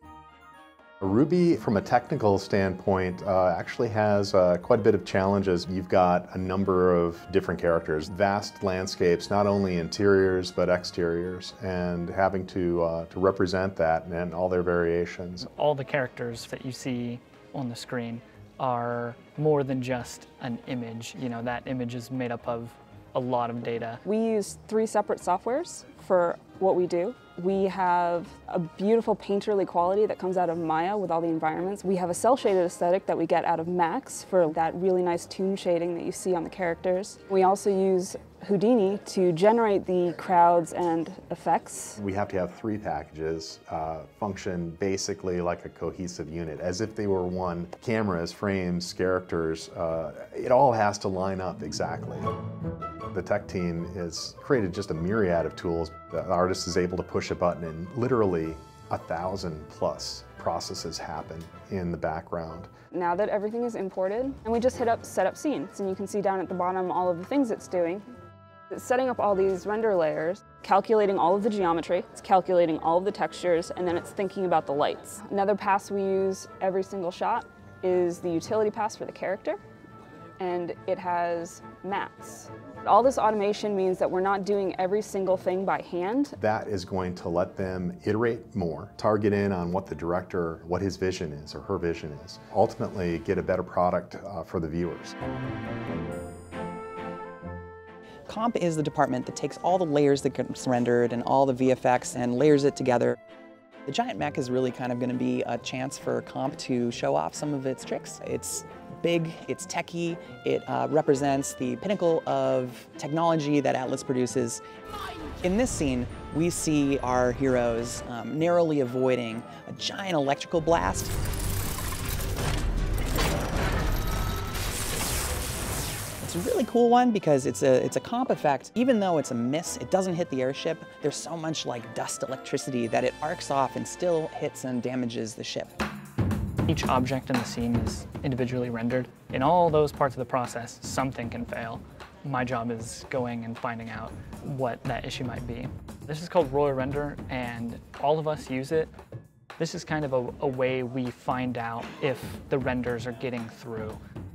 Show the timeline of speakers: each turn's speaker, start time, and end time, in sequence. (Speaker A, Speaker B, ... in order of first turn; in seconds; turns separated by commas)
Speaker A: 1.0-15.5, Speaker B: 15.4-24.0, Speaker C: 24.0-42.0, Speaker A: 42.0-52.3, Speaker A: 53.1-62.7, Speaker C: 62.9-68.0, Speaker C: 68.7-79.6, Speaker C: 80.4-86.4, Speaker A: 86.4-95.1, Speaker D: 98.3-103.1, Speaker D: 103.9-114.6, Speaker D: 115.4-121.1, Speaker D: 126.2-135.8, Speaker B: 136.7-148.9, Speaker B: 149.6-154.0